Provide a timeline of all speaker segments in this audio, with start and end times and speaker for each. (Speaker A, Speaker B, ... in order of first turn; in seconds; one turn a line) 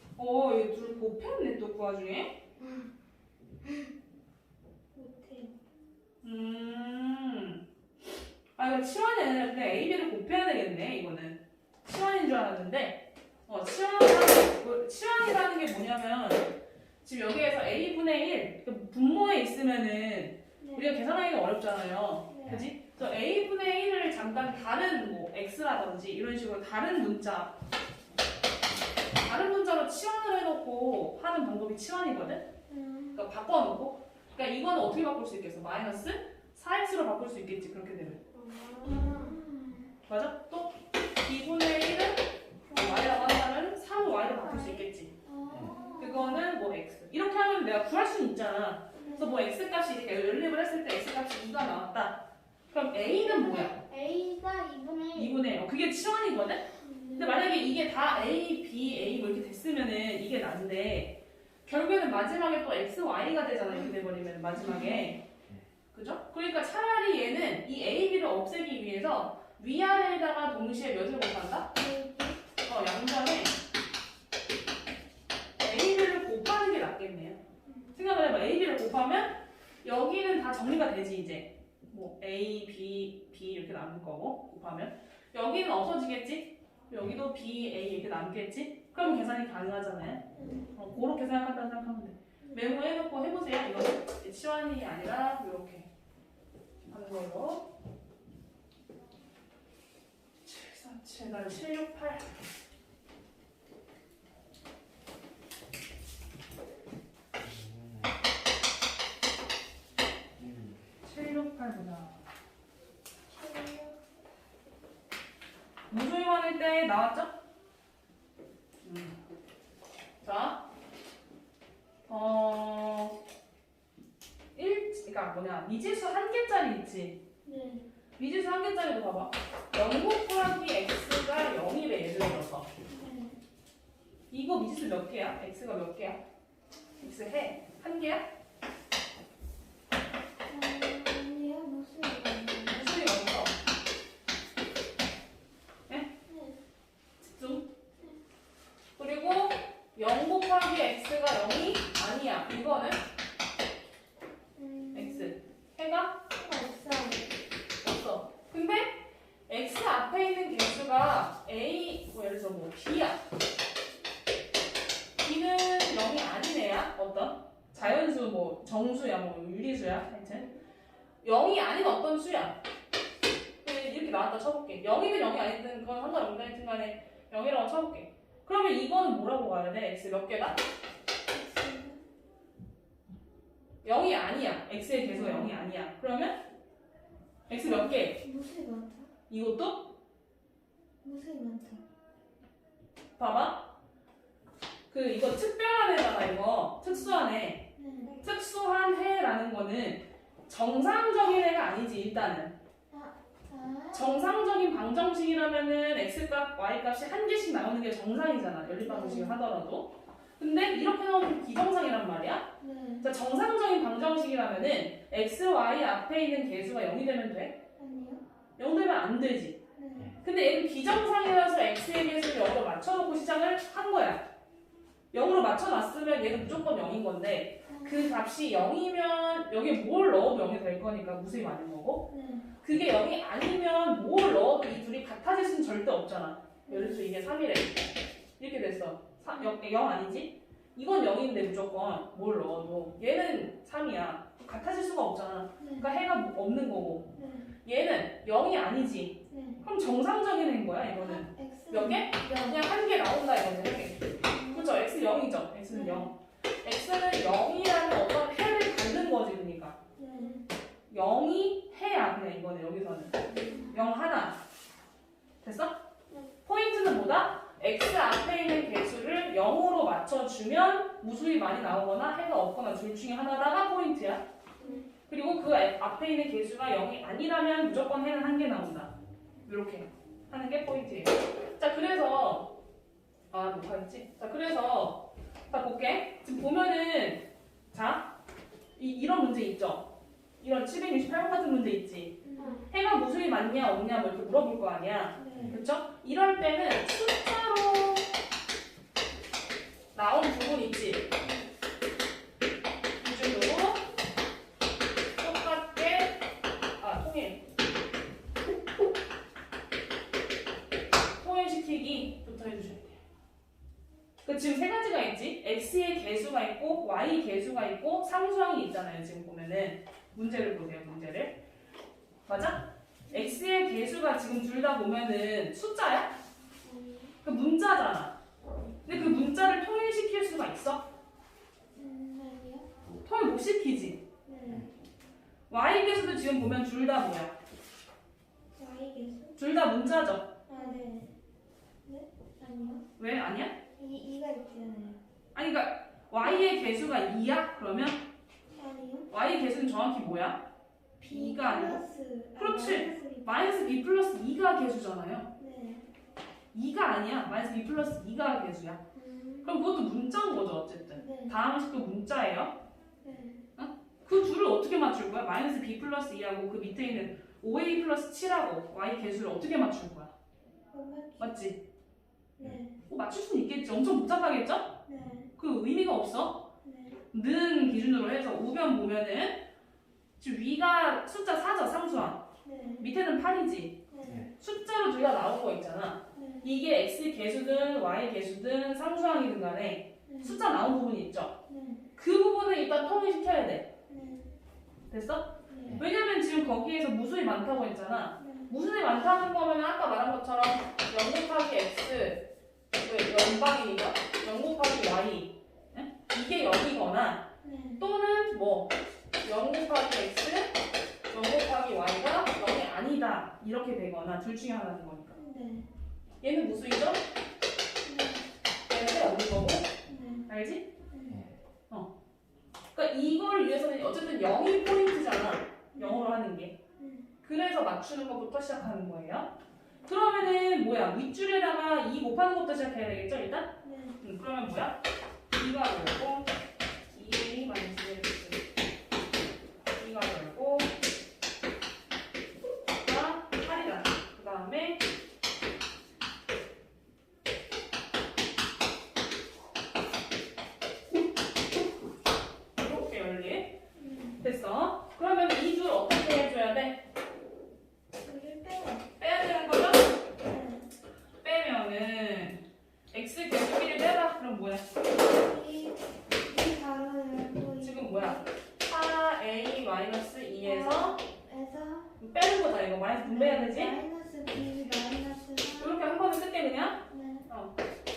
Speaker A: 0.2-2.4
Speaker B: 2.6-2.9
Speaker B: 3.6-3.9
Speaker C: 4.9-5.5
Speaker A: 6.2-7.6
Speaker A: 8.6-16.5
Speaker A: 17.0-27.5
Speaker C: 20.6-20.9
Speaker C: 22.3-22.6
Speaker A: 29.2-32.4
Speaker C: 32.7-33.2
Speaker A: 33.1-38.2
Speaker B: 38.3-39.4
Speaker C: 38.8-39.9
Speaker A: 40.1-45.1
Speaker C: 42.7-43.3
Speaker C: 44.4-46.4
Speaker B: 45.6-46.3
Speaker A: 46.0-53.8
Speaker C: 48.9-49.4
Speaker B: 53.1-55.4
Speaker A: 55.1-56.6
Speaker C: 56.8-57.5
Speaker A: 57.1-61.1
Speaker A: 61.6-65.2
Speaker C: 64.5-65.1
Speaker A: 65.9-71.7
Speaker C: 71.7-72.4
Speaker A: 72.6-73.5
Speaker A: 75.6-77.4
Speaker C: 77.7-77.9
Speaker A: 77.9-95.9
Speaker C: 90.3-90.7
Speaker C: 92.4-92.7
Speaker A: 96.9-97.7
Speaker A: 100.4-102.3
Speaker D: 107.3-108.2
Speaker D: 110.4-110.9
Speaker A: 111.0-112.2
Speaker C: 113.3-114.0
Speaker A: 115.9-117.3
Speaker A: 118.8-119.2
Speaker A: 120.2-120.6
Speaker A: 122.1-123.1
Speaker A: 124.5-127.2
Speaker C: 127.4-127.9
Speaker A: 128.2-132.7
Speaker C: 132.9-133.4
Speaker A: 134.3-136.2
Speaker A: 137.0-138.2
Speaker C: 140.5-142.9
Speaker A: 142.7-143.5
Speaker C: 146.2-146.6
Speaker A: 147.2-147.7
Speaker A: 149.0-153.0
Speaker C: 154.6-155.3
Speaker A: 154.9-156.2
Speaker C: 156.3-157.3
Speaker A: 157.8-163.2
Speaker A: 165.2-170.5
Speaker A: 171.2-172.5
Speaker A: 173.6-180.6
Speaker C: 181.3-182.0
Speaker A: 183.8-186.3
Speaker C: 185.1-185.5
Speaker A: 187.5-188.2
Speaker C: 187.6-189.1
Speaker A: 189.3-189.9
Speaker C: 191.0-191.8
Speaker A: 193.2-193.7
Speaker A: 194.9-197.6
Speaker C: 196.8-197.2
Speaker C: 197.8-198.2
Speaker A: 198.2-202.5
Speaker C: 202.9-204.2
Speaker A: 203.9-212.5
Speaker C: 208.8-209.4
Speaker C: 212.6-213.1
Speaker A: 213.0-217.6
Speaker C: 217.8-218.2
Speaker A: 218.6-219.6
Speaker C: 219.8-220.2
Speaker A: 220.2-224.2
Speaker A: 225.1-232.1
Speaker C: 227.7-228.2
Speaker C: 232.1-232.5
Speaker A: 232.6-247.1
Speaker C: 236.7-237.0
Speaker C: 245.6-245.9
Speaker C: 247.1-247.5
Speaker A: 247.6-259.8
Speaker C: 249.3-249.6
Speaker C: 251.0-252.6
Speaker C: 254.2-254.8
Speaker C: 255.7-256.1
Speaker C: 260.0-260.4
Speaker A: 260.9-263.2
Speaker B: 263.2-263.8
Speaker C: 263.5-263.9
Speaker A: 263.7-264.4
Speaker A: 265.4-265.8
Speaker A: 266.4-274.2
Speaker B: 274.6-274.9
Speaker C: 274.6-274.9
Speaker A: 275.1-278.9
Speaker A: 279.4-282.5
Speaker A: 283.3-288.1
Speaker A: 288.8-289.9
Speaker A: 290.4-298.1
Speaker C: 292.2-292.6
Speaker B: 292.4-292.6
Speaker C: 295.2-295.6
Speaker A: 299.9-301.1
Speaker C: 301.2-301.4
Speaker A: 303.0-303.9
Speaker A: 305.2-306.2
Speaker A: 306.8-307.4
Speaker A: 311.2-313.0
Speaker A: 314.2-321.4
Speaker A: 322.3-326.1
Speaker C: 323.1-323.4
Speaker B: 326.6-327.1
Speaker A: 327.2-328.1
Speaker A: 328.8-330.8
Speaker D: 328.9-329.2
Speaker C: 331.7-332.7
Speaker A: 332.9-334.0
Speaker C: 334.2-334.7
Speaker A: 335.5-337.3
Speaker C: 338.6-339.3
Speaker A: 339.4-340.3
Speaker C: 340.5-341.1
Speaker C: 341.8-342.8
Speaker A: 343.0-343.5
Speaker C: 343.8-345.0
Speaker A: 345.3-348.0
Speaker C: 348.5-349.1
Speaker A: 349.1-350.4
Speaker C: 351.0-353.7
Speaker A: 351.0-351.8
Speaker A: 352.4-355.3
Speaker C: 355.4-355.8
Speaker A: 356.5-358.8
Speaker C: 358.9-359.6
Speaker A: 359.4-362.5
Speaker C: 360.9-361.4
Speaker C: 363.0-363.4
Speaker A: 363.6-370.1
Speaker C: 370.7-371.3
Speaker A: 371.2-371.6
Speaker C: 372.4-372.8
Speaker A: 372.9-374.7
Speaker C: 374.9-375.3
Speaker A: 375.4-376.4
Speaker C: 376.6-377.0
Speaker A: 377.1-379.4
Speaker A: 380.2-382.2
Speaker C: 382.4-382.9
Speaker A: 382.8-383.8
Speaker C: 383.9-384.3
Speaker D: 384.0-384.3
Speaker A: 384.3-391.3
Speaker C: 386.1-386.5
Speaker C: 390.1-390.5
Speaker C: 391.5-391.9
Speaker A: 392.0-393.7
Speaker C: 393.9-394.3
Speaker A: 394.9-402.2
Speaker C: 395.5-395.8
Speaker C: 398.2-398.5
Speaker A: 402.8-407.2
Speaker C: 407.4-407.8
Speaker A: 407.8-410.5
Speaker A: 411.1-415.1
Speaker C: 415.1-415.7
Speaker A: 416.2-417.0
Speaker C: 417.8-418.3
Speaker A: 418.7-419.7
Speaker C: 419.9-420.3
Speaker A: 420.3-420.6
Speaker C: 420.9-421.2
Speaker A: 422.7-426.5
Speaker C: 425.7-426.1
Speaker C: 426.8-427.1
Speaker A: 427.2-429.3
Speaker A: 429.9-434.8
Speaker C: 433.6-434.0
Speaker A: 435.3-436.3
Speaker A: 436.9-438.4
Speaker A: 439.8-440.7
Speaker A: 442.8-444.8
Speaker A: 452.6-453.5
Speaker C: 453.7-454.2
Speaker A: 454.2-456.8
Speaker C: 458.0-458.9
Speaker A: 459.0-459.9
Speaker C: 460.2-460.6
Speaker A: 461.2-462.4
Speaker A: 462.9-464.6
Speaker C: 465.1-468.3
Speaker A: 467.6-471.0
Speaker C: 470.4-471.9
Speaker A: 472.0-473.8
Speaker C: 473.1-475.8
Speaker A: 475.6-477.5
Speaker C: 476.9-477.2